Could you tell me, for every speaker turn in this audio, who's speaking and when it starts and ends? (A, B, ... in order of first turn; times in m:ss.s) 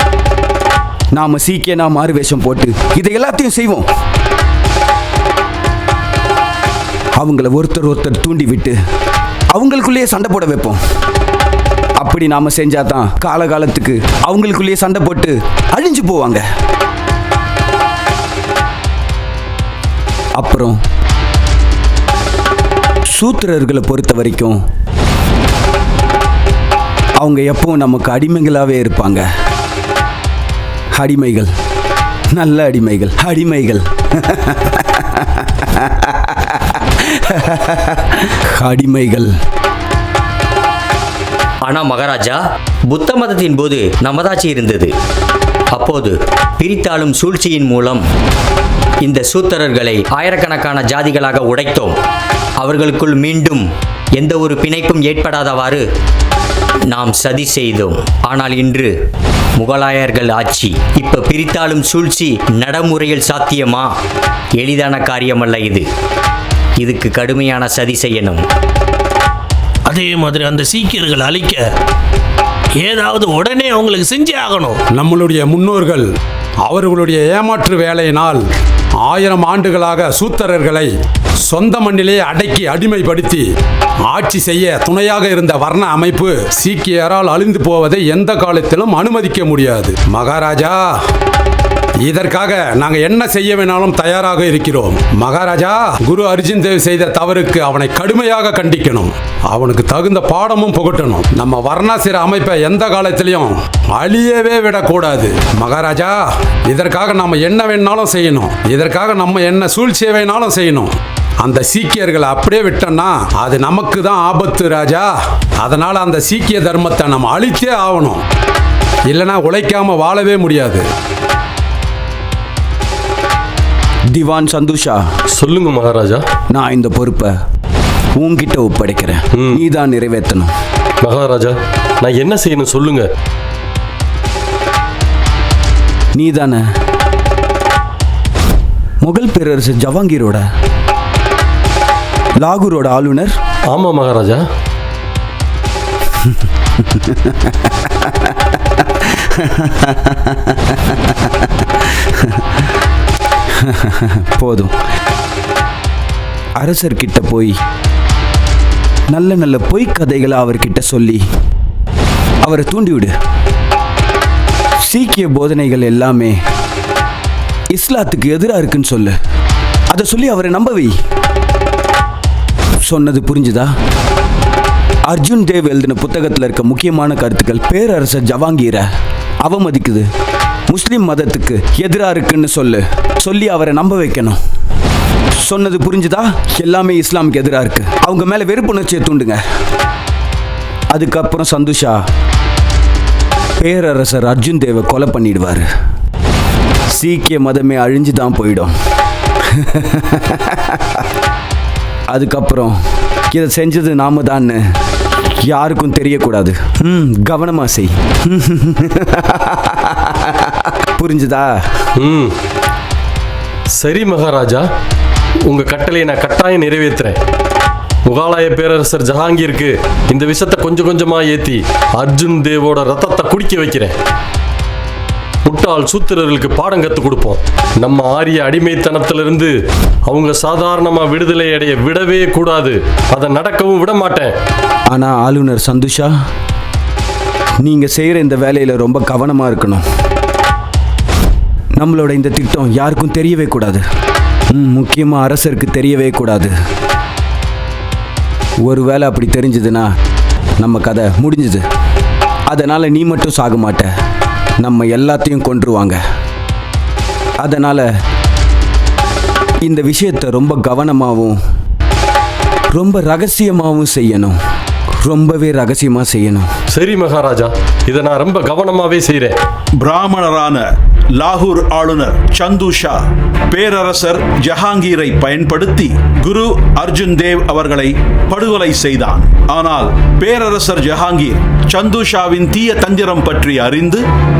0:01.1-0:03.9 A
0:07.2-0:08.8 A
0:09.5-0:10.8 A
0:12.0-0:16.4 A
0:20.4-0:20.8 A
0:23.2-0:24.6 A
0:27.2-0:29.3 A
0:31.0-0:31.5 A
0:32.3-0:39.3 A
0:41.6-0:44.9 B
0:45.7-0:48.0 B
0:49.0-0:52.0 B
0:52.6-0:53.7 B
0:54.2-0:55.8 B
0:56.9-0:58.9 B
0:59.6-1:03.9 B
1:04.6-1:05.9 B
1:06.8-1:08.4 B
1:09.9-1:11.6 C
1:12.8-1:14.8 C
1:15.0-1:16.0 D
1:16.7-1:18.4 D
1:19.1-1:20.9 D
1:21.5-1:23.4 D
1:24.1-1:30.8 D
1:32.1-1:46.2 D
1:46.7-1:50.9 D
1:51.4-1:55.1 D
1:55.6-1:58.2 D
1:59.1-2:00.8 D
2:04.1-2:05.0 A
2:05.4-2:06.2 E
2:06.5-2:07.3 A
2:08.2-2:10.5 A
2:11.0-2:13.1 E
2:16.2-2:16.6 A
2:19.0-2:20.4 A
2:22.4-2:23.3 A
2:23.7-2:24.4 E
2:26.8-2:32.6 A
2:33.6-2:34.7 A
2:36.6-2:37.6 A
2:39.1-2:41.2 A
2:42.4-2:43.1 A
2:44.8-2:46.4 A
2:47.7-2:49.2 A
2:49.9-2:50.9 A
2:52.8-2:53.7 A
2:55.1-2:58.9 A
2:59.4-3:00.1 A
3:00.7-3:04.4 A
3:05.4-3:09.4 A
3:10.9-3:12.0 A
3:13.6-3:15.7 A
3:16.9-3:18.7 A
3:19.5-3:21.0 A
3:22.1-3:22.8 A
3:23.3-3:24.6 A
3:25.5-3:31.5 A
3:32.0-3:32.3 E
3:33.8-3:34.6 E
3:35.5-3:37.2 E
3:38.1-3:43.9 E
3:45.4-3:49.5 E
3:50.1-3:54.3 E
3:54.9-3:56.1 A
3:57.6-3:59.8 A
4:01.8-4:03.8 A
4:04.5-4:06.5 A
4:08.6-4:09.9 A
4:10.6-4:11.6 A
4:12.5-4:13.9 A
4:14.6-4:16.0 A
4:17.4-4:17.9 A
4:19.6-4:21.4 A
4:22.7-4:24.4 A
4:25.0-4:26.5 A
4:26.8-4:29.4 E
4:29.8-4:44.0 F